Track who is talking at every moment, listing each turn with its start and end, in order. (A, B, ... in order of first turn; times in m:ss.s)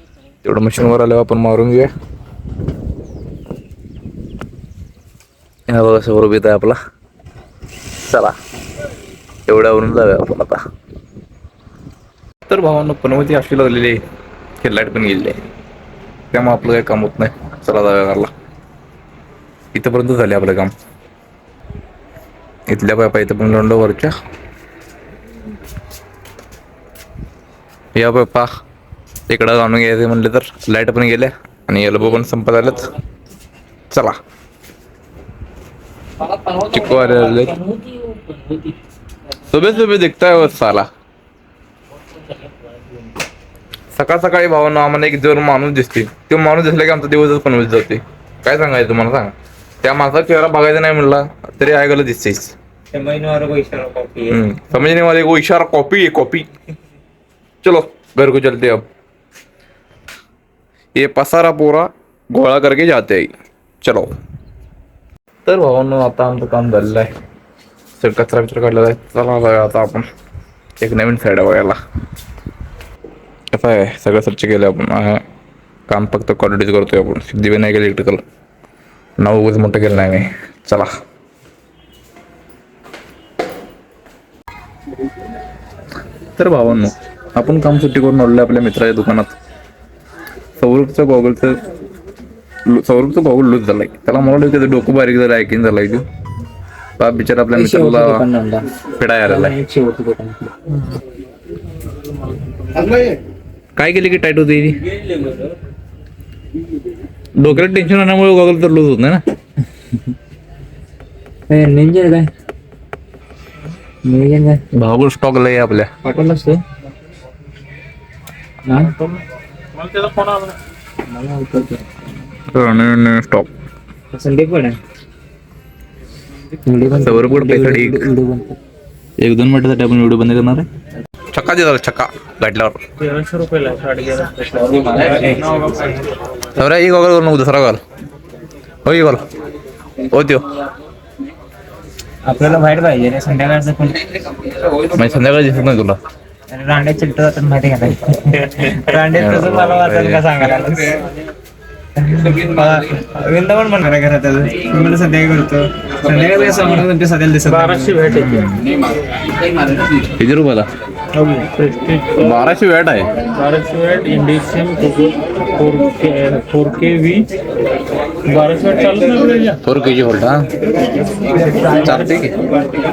0:00.4-0:01.9 A
0:05.7-0:06.8 A
0:08.1-0:08.3 A
0:09.5-0:10.6 A
0:12.4-0:14.0 A
0:14.6-0:15.3 A
0:16.3-0:18.3 A
0:19.7-0:20.7 A
0:22.7-0:24.1 A
0:27.9-0:28.5 A
0:29.3-0:32.9 A
0:36.2-0:38.7 B
0:36.6-0:37.6 A
0:39.5-0:40.9 A
0:43.9-0:52.5 A
0:52.9-0:54.4 B
0:54.3-0:56.5 A
0:57.6-0:58.8 A
1:01.0-1:03.3 A
1:03.8-1:04.1 A
1:05.4-1:07.1 A
1:08.0-1:10.0 A
1:10.8-1:11.8 A
1:13.5-1:15.2 A
1:15.9-1:18.2 A
1:19.2-1:20.9 A
1:26.3-1:29.3 A
1:30.6-1:31.5 A
1:32.7-1:36.0 A
1:37.0-1:38.2 A
1:37.5-1:38.7 B
1:39.0-1:39.6 A
1:39.2-1:40.8 B
1:43.8-1:44.8 A
1:47.4-1:49.2 A
1:51.5-1:52.3 B
1:54.0-1:54.6 B
1:54.7-1:55.9 A
1:56.0-1:56.6 B
1:58.6-1:59.0 B
1:59.8-2:00.5 C
1:59.9-2:00.4 B
2:01.1-2:01.8 B
2:02.5-2:03.5 A
2:04.1-2:04.8 B
2:06.6-2:08.6 B
2:07.0-2:08.0 A
2:09.2-2:10.6 A
2:11.3-2:12.8 A
2:13.0-2:14.3 C
2:14.2-2:16.0 B
2:16.5-2:17.8 A
2:18.8-2:19.2 A
2:20.0-2:20.4 A
2:22.2-2:24.2 B
2:24.8-2:26.0 A
2:26.5-2:31.1 B
2:29.1-2:30.2 A
2:32.0-2:38.1 B
2:37.7-2:38.3 C
2:38.0-2:38.7 A
2:40.0-2:40.6 A
2:41.1-2:41.6 B
2:41.6-2:42.2 C
2:42.1-2:43.0 A
2:43.4-2:47.3 C
2:48.2-2:49.6 C
2:49.6-2:50.5 A
2:51.4-2:51.9 B
2:51.6-2:52.3 A